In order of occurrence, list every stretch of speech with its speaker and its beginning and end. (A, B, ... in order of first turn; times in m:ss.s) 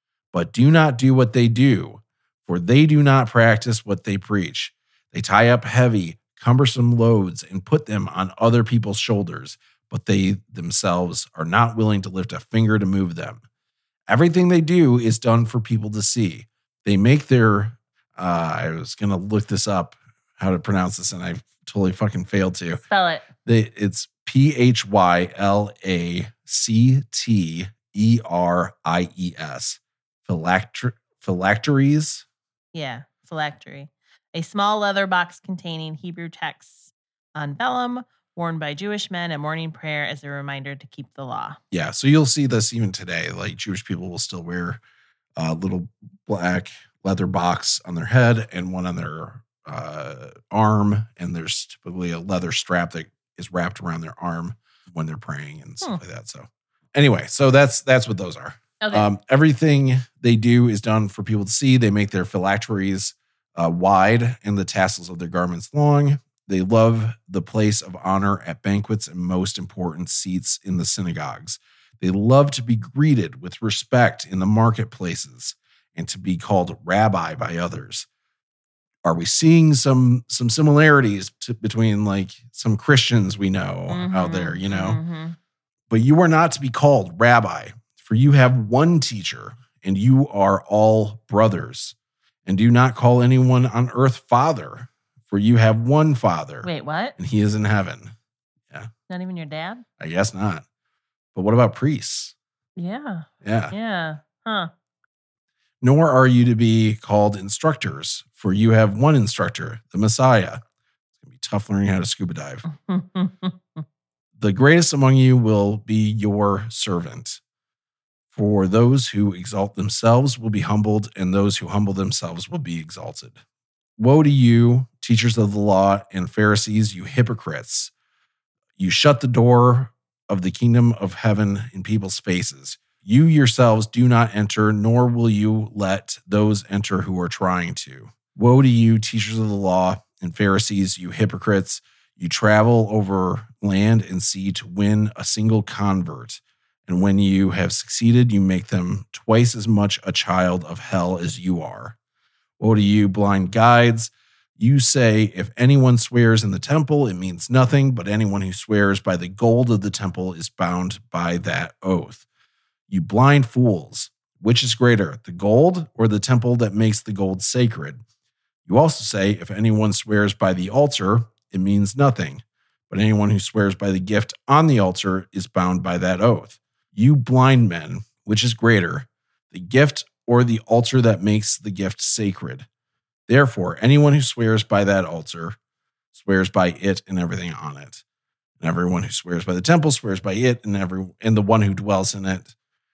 0:00.3-0:13.4 A
0:14.1-0:22.8 A
0:22.8-0:23.2 B
0:23.4-0:32.2 A
0:32.7-0:41.6 B
0:41.7-0:44.8 A
0:45.4-1:18.1 A
0:58.8-0:59.1 B
1:19.0-1:25.0 A
1:23.9-1:25.4 B
1:25.9-1:38.1 A
1:36.6-1:37.2 B
1:39.1-1:39.8 B
1:40.0-1:40.6 A
1:41.3-1:42.3 A
1:42.8-1:44.7 B
1:43.4-1:43.7 A
1:45.8-1:50.6 A
1:51.2-1:52.6 A
1:52.7-1:53.8 B
1:54.4-1:57.4 A
1:58.3-2:03.4 A
2:04.0-2:07.9 A
2:08.8-2:32.0 A
2:32.6-2:42.2 A
2:42.9-2:48.0 A
2:48.6-3:02.6 A
3:03.3-3:05.6 A
3:06.1-3:08.0 A
3:08.6-3:12.5 A